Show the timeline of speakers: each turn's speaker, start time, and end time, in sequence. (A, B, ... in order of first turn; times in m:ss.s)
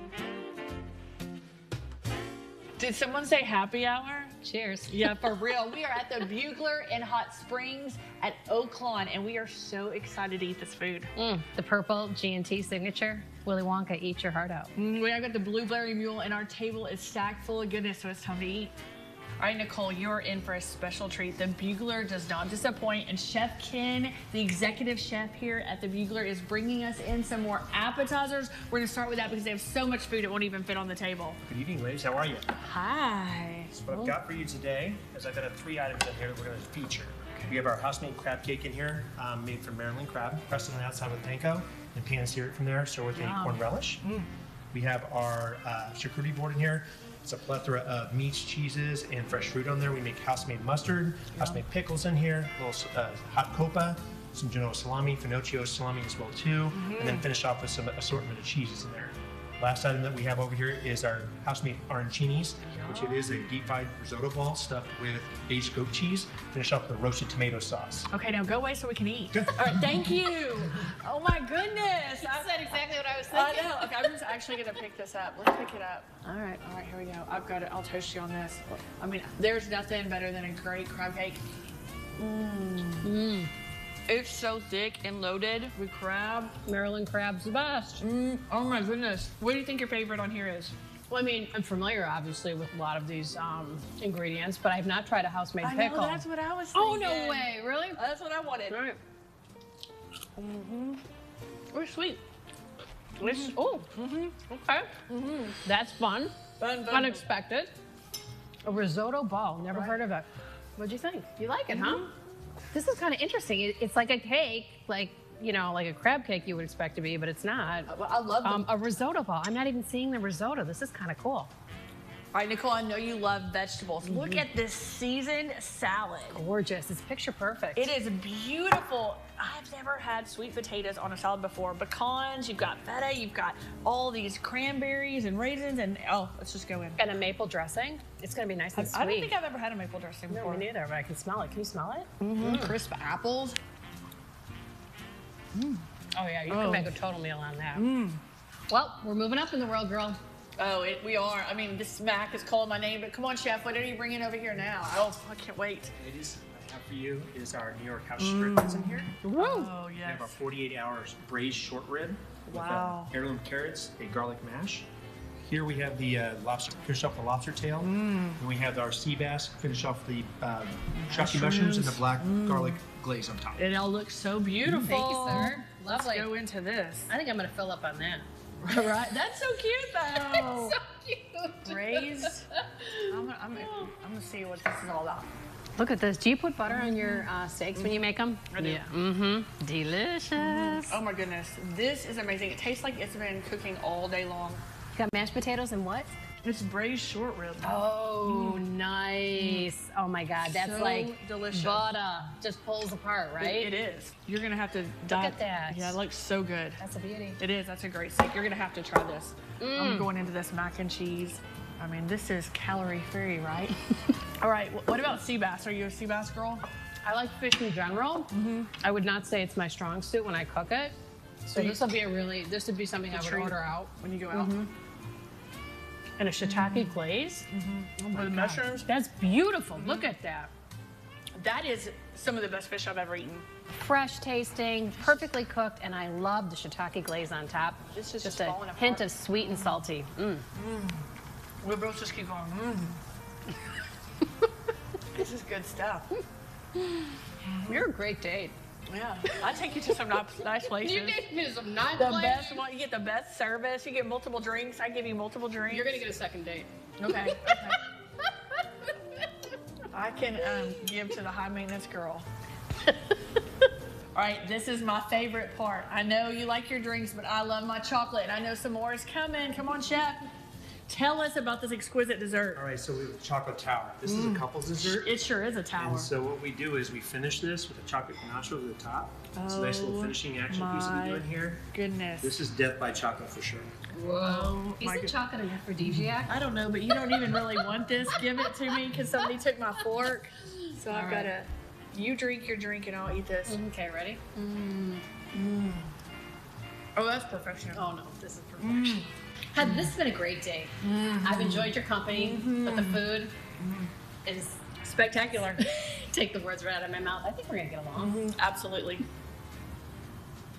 0:02.8-0:04.3 A
0:04.4-0:05.1 B
0:04.9-0:11.1 A
0:11.2-0:14.7 B
0:14.8-0:18.7 A
0:19.4-0:31.4 A
0:31.5-0:32.5 C
0:32.6-0:34.2 A
0:33.7-0:44.0 C
0:43.1-0:44.3 A
0:44.7-1:08.1 C
0:51.3-0:51.6 A
0:56.7-0:57.2 A
1:02.7-1:03.5 A
1:08.1-1:21.4 A
1:09.3-1:09.8 C
1:11.8-1:14.1 B
1:16.2-1:16.6 B
1:22.2-1:23.2 A
1:23.0-1:23.5 B
1:24.1-1:26.6 A
1:26.6-1:28.0 B
1:28.0-1:30.7 A
1:31.1-1:36.2 B
1:35.6-1:38.8 A
1:36.7-1:38.0 B
1:38.7-1:39.0 B
1:40.4-1:41.0 A
1:41.7-1:42.0 B
1:41.8-1:42.2 A
1:43.2-1:44.4 A
1:43.2-1:43.9 B
1:44.5-1:44.9 B
1:45.1-1:45.6 A
1:45.6-1:47.7 B
1:46.6-1:47.2 A
1:48.6-1:50.3 B
1:49.7-1:50.0 A
1:50.8-1:52.1 B
1:51.7-1:52.1 A
1:52.7-1:57.9 B
1:57.9-1:58.7 A
1:58.4-2:01.5 B
2:02.3-2:06.4 A
2:04.1-2:04.4 B
2:06.3-2:07.9 B
2:07.8-2:17.1 A
2:17.0-2:19.3 B
2:18.8-2:20.7 A
2:20.3-2:22.8 B
2:22.2-2:23.6 A
2:25.6-2:25.8 A
2:26.2-2:27.8 B
2:26.5-2:26.9 A
2:27.8-2:28.2 A
2:28.7-2:30.2 B
2:30.6-2:35.9 A
2:35.9-2:39.2 C
2:38.2-2:40.4 A
2:39.2-2:39.7 B
2:40.0-2:44.9 C
2:42.5-2:43.1 A
2:45.4-2:53.6 C
2:47.8-2:48.4 A
2:51.0-2:52.8 A
2:53.6-2:57.1 A
2:54.6-2:56.3 B
2:57.1-2:58.3 B
2:58.6-3:00.8 A
3:00.1-3:03.1 B
3:01.6-3:02.5 A
3:03.1-3:05.3 A
3:05.8-3:11.0 B
3:06.7-3:08.9 A
3:10.4-3:14.6 A
3:15.0-3:16.1 B
3:16.4-3:18.7 A
3:17.6-3:23.7 B
3:19.4-3:19.7 A
3:20.4-3:21.9 A
3:23.4-3:26.8 A
3:25.1-3:26.0 B
3:26.8-3:27.4 B
3:27.4-3:36.7 A
3:29.6-3:30.1 B
3:37.0-3:40.9 B
3:38.3-3:38.7 A
3:41.5-3:44.7 B
3:41.5-3:41.8 A
3:43.1-3:44.7 A
3:46.2-3:47.5 B
3:46.4-3:47.0 A
3:47.5-3:48.9 A
3:48.1-3:50.5 B
3:49.8-3:50.1 A
3:51.4-3:53.4 A
3:53.8-4:00.4 B
3:57.9-3:59.8 A
4:00.6-4:01.0 A
4:01.6-4:03.0 A
4:05.1-4:06.1 A
4:07.4-4:07.9 A
4:07.7-4:08.6 B
4:08.9-4:11.2 A
4:10.8-4:12.6 B
4:11.9-4:16.0 A
4:15.7-4:17.8 B
4:17.0-4:17.8 A
4:19.9-4:22.3 A
4:24.1-4:30.3 A
4:30.9-4:32.6 A
4:32.6-4:35.1 C
4:34.1-4:36.1 A
4:35.8-4:41.6 C
4:39.4-4:42.4 A
4:42.2-4:43.7 C
4:43.9-4:46.4 B
4:44.2-4:45.2 A
4:46.3-4:53.6 A
4:47.1-4:47.4 B
4:48.1-4:49.3 B
4:50.9-4:51.3 B
4:53.5-4:54.3 B
4:54.4-4:55.9 A
4:57.0-4:57.9 A
4:57.7-5:03.3 B
4:58.6-4:59.1 A
4:59.6-4:59.9 A
5:00.8-5:03.9 A
5:04.2-5:08.2 B
5:05.2-5:05.6 A
5:08.0-5:09.0 A